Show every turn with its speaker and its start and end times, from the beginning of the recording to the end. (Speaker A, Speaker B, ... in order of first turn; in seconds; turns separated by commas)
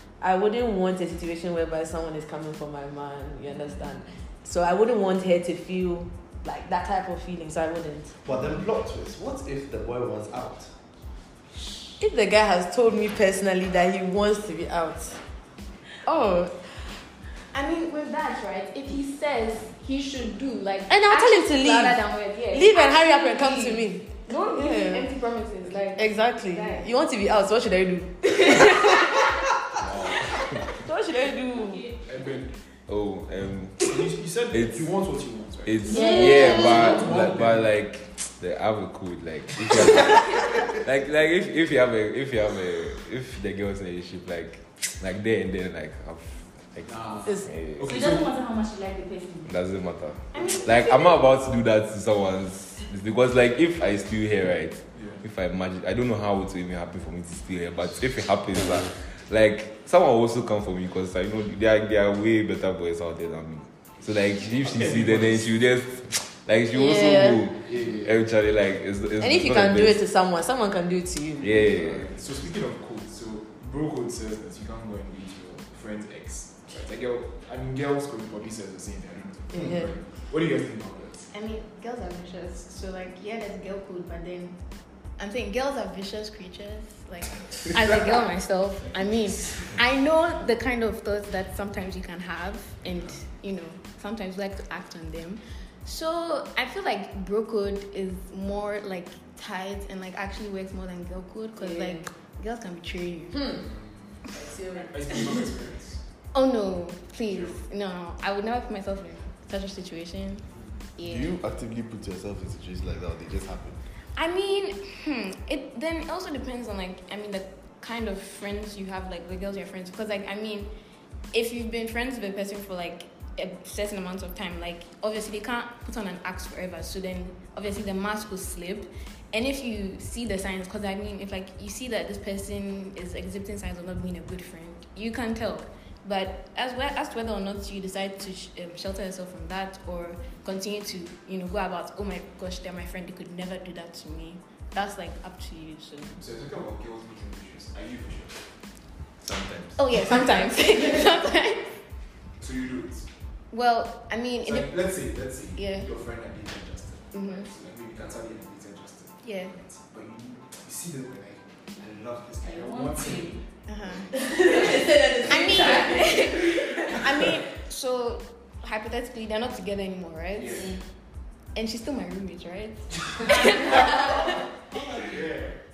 Speaker A: 0.2-8.2, Speaker B: 8.2-10.7, Speaker A: 12.0-15.2, Speaker A: 16.1-16.9, Speaker C: 17.5-26.9, Speaker A: 20.9-22.0, Speaker A: 22.5-25.1, Speaker A: 26.0-29.3, Speaker C: 28.4-29.2, Speaker D: 29.8-30.7, Speaker A: 30.7-31.9, Speaker E: 31.5-32.0, Speaker F: 32.1-32.5, Speaker D: 32.9-34.9, Speaker F: 33.8-36.0, Speaker D: 35.6-48.1, Speaker A: 35.9-37.0, Speaker E: 35.9-37.0, Speaker F: 36.6-37.7, Speaker F: 46.9-48.3, Speaker E: 47.8-49.5, Speaker D: 49.5-70.0, Speaker C: 50.3-51.3, Speaker F: 64.6-65.4, Speaker A: 66.7-67.5, Speaker F: 67.7-68.1, Speaker A: 69.2-71.6, Speaker D: 71.4-72.1, Speaker F: 71.8-81.2, Speaker A: 79.5-79.9, Speaker C: 81.3-84.6, Speaker C: 85.2-103.6, Speaker A: 101.6-102.1, Speaker A: 103.4-103.6, Speaker A: 104.3-105.5, Speaker F: 104.9-105.9, Speaker C: 106.3-111.3, Speaker B: 111.0-113.8, Speaker C: 114.2-120.7, Speaker C: 121.3-146.2, Speaker F: 146.2-148.3, Speaker D: 149.2-149.8, Speaker C: 149.8-151.8, Speaker F: 152.4-153.1, Speaker C: 153.5-154.8, Speaker F: 154.5-159.1, Speaker C: 155.6-155.9, Speaker C: 157.1-157.5, Speaker C: 159.2-159.6, Speaker F: 159.7-163.4, Speaker E: 162.4-163.4, Speaker C: 163.7-164.3, Speaker A: 164.1-166.5, Speaker E: 164.8-166.0, Speaker C: 165.2-170.7, Speaker F: 170.4-170.7, Speaker C: 171.6-174.4, Speaker F: 174.8-175.5